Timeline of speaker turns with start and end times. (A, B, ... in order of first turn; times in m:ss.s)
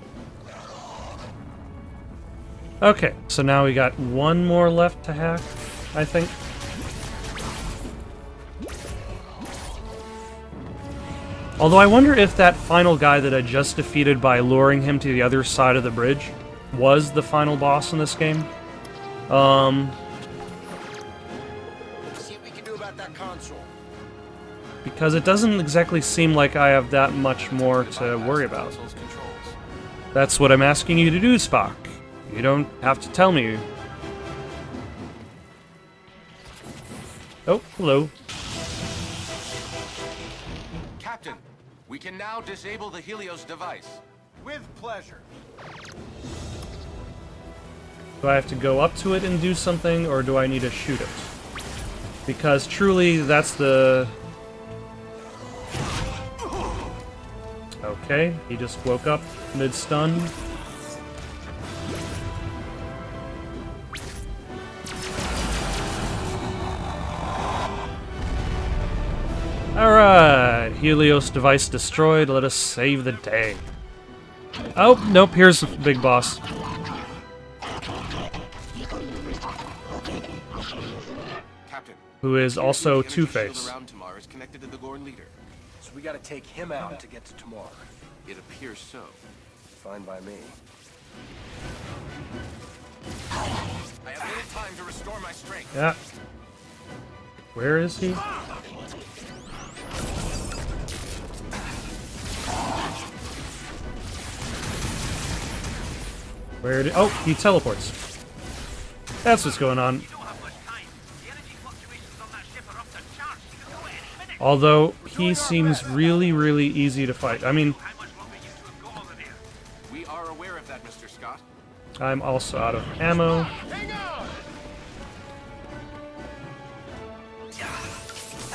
0:02.8-0:06.3 A
0:11.6-0:18.5 A
0:19.3-0:20.0 A
0:22.0-0:23.7 B
0:24.8-0:28.8 A
0:27.1-0:29.6 C
0:30.1-0:33.6 A
0:37.5-0:38.1 A
0:41.0-0:44.0 C
0:44.4-0:45.3 B
0:48.2-0:51.3 A
0:52.2-0:54.1 A
0:57.8-1:00.3 A
1:09.7-1:13.6 A
1:11.9-1:13.2 D
1:14.8-1:16.4 A
1:21.6-1:25.4 C
1:22.2-1:23.7 A
1:25.8-1:27.9 B
1:28.2-1:29.2 C
1:29.7-1:30.6 B
1:34.0-1:35.8 C
1:37.5-1:38.2 A
1:46.6-1:47.9 A
1:49.2-1:50.0 A
1:49.9-1:54.7 D
1:54.4-1:57.8 A
1:55.0-1:56.4 B
1:57.2-1:59.4 D
1:59.9-2:01.4 C
2:02.0-2:03.5 A
2:03.6-2:04.4 B